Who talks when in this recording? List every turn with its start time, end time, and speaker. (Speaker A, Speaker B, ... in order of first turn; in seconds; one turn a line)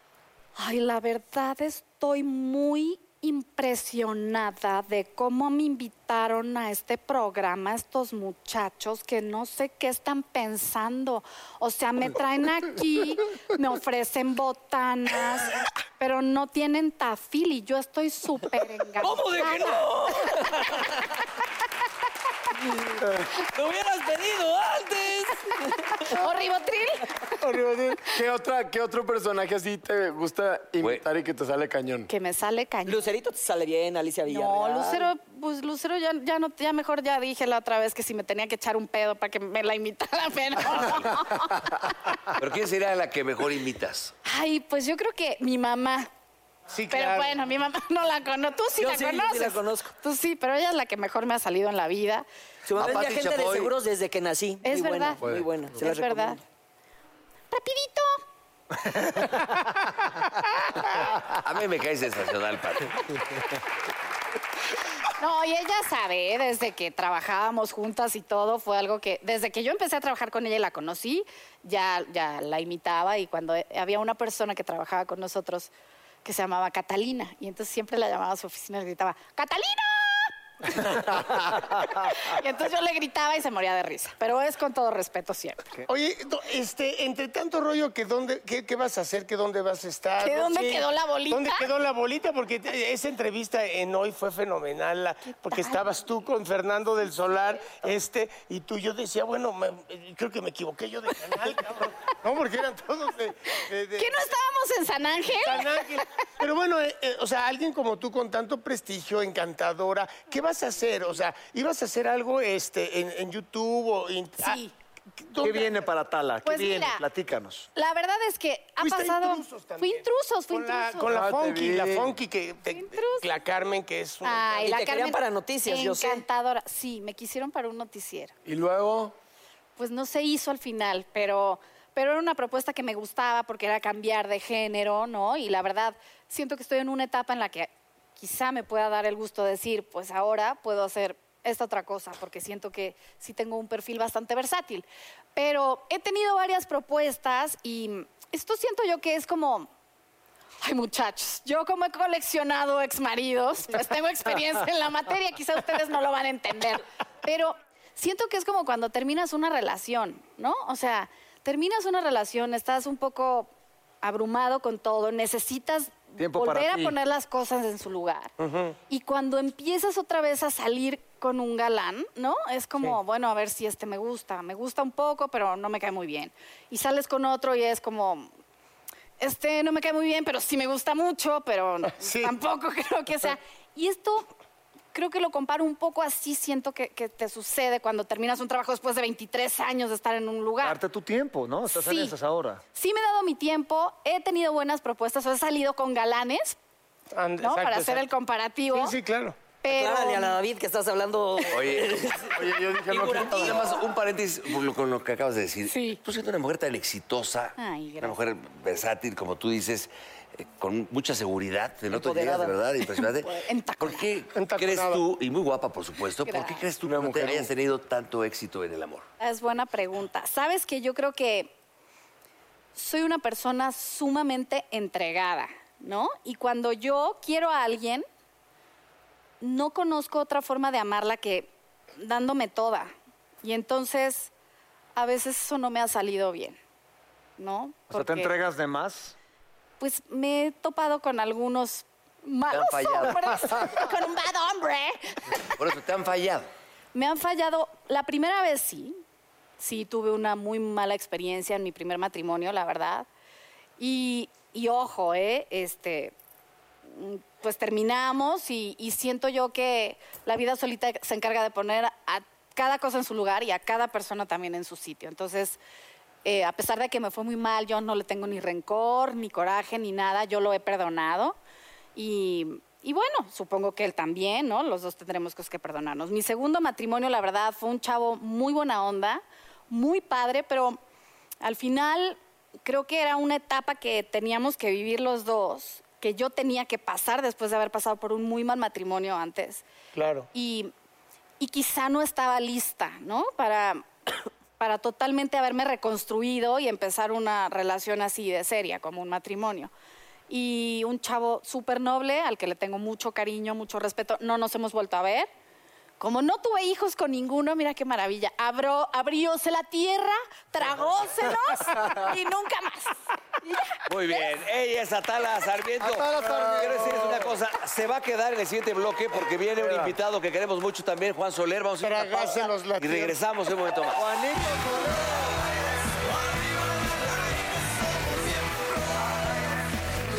Speaker A: 0.6-20.5
Speaker B: 19.0-20.9
Speaker B: 22.9-26.1
Speaker A: 26.1-27.1
Speaker C: 27.4-32.1
Speaker A: 32.1-33.0
Speaker B: 32.9-35.1
Speaker A: 34.3-42.1
Speaker D: 40.7-41.1
Speaker D: 42.3-44.1
Speaker A: 44.3-46.1
Speaker E: 46.7-47.4
Speaker A: 46.9-52.3
Speaker B: 48.8-49.9
Speaker B: 52.6-56.4
Speaker D: 52.8-53.7
Speaker A: 54.6-56.4
Speaker A: 57.5-58.2
Speaker D: 61.2-63.2
Speaker A: 65.2-75.7
Speaker A: 76.2-85.7
Speaker E: 85.9-104.2
Speaker A: 90.2-91.7
Speaker A: 95.5-95.8
Speaker A: 104.0-105.8
Speaker E: 105.2-114.6
Speaker A: 114.4-114.7
Speaker E: 115.2-115.8
Speaker F: 115.4-117.7
Speaker A: 116.4-117.0
Speaker A: 117.8-121.2
Speaker E: 118.8-124.7
Speaker C: 121.1-122.1
Speaker A: 122.7-123.3
Speaker A: 124.2-128.3
Speaker B: 124.7-126.2
Speaker C: 128.4-129.1
Speaker A: 129.8-149.7
Speaker A: 150.6-163.5
Speaker A: 164.0-168.3
Speaker F: 166.2-167.0
Speaker E: 168.4-168.8
Speaker A: 168.9-178.3
Speaker A: 179.2-184.3
Speaker E: 181.9-182.4
Speaker A: 184.9-190.8
Speaker F: 190.6-192.6
Speaker A: 191.7-192.1
Speaker A: 192.7-196.6
Speaker E: 197.1-198.1
Speaker A: 197.4-198.9
Speaker E: 198.7-199.4
Speaker A: 199.6-200.4
Speaker B: 199.7-203.7
Speaker D: 201.5-202.0
Speaker C: 202.3-203.6
Speaker D: 203.0-219.1
Speaker A: 205.7-206.0
Speaker A: 207.6-208.2
Speaker B: 211.9-212.6
Speaker A: 213.3-214.1
Speaker E: 214.3-215.0
Speaker A: 216.2-216.6
Speaker C: 216.8-217.5
Speaker A: 219.2-221.5
Speaker A: 222.7-228.1
Speaker A: 229.4-232.9
Speaker A: 233.4-234.3
Speaker A: 234.9-236.6
Speaker A: 237.4-238.3
Speaker F: 237.9-239.1
Speaker A: 239.8-245.5
Speaker D: 242.5-243.9
Speaker D: 245.6-246.5
Speaker A: 246.9-249.0
Speaker A: 249.6-253.1
Speaker A: 253.8-256.1
Speaker A: 256.9-265.6
Speaker A: 266.2-271.4
Speaker A: 271.9-280.8
Speaker A: 281.4-289.6
Speaker E: 289.9-290.3
Speaker A: 290.3-290.7
Speaker A: 291.4-299.7
Speaker A: 300.3-305.3
Speaker A: 306.0-314.3
Speaker D: 313.9-324.0
Speaker F: 315.8-317.4
Speaker E: 321.8-323.2
Speaker F: 323.9-325.3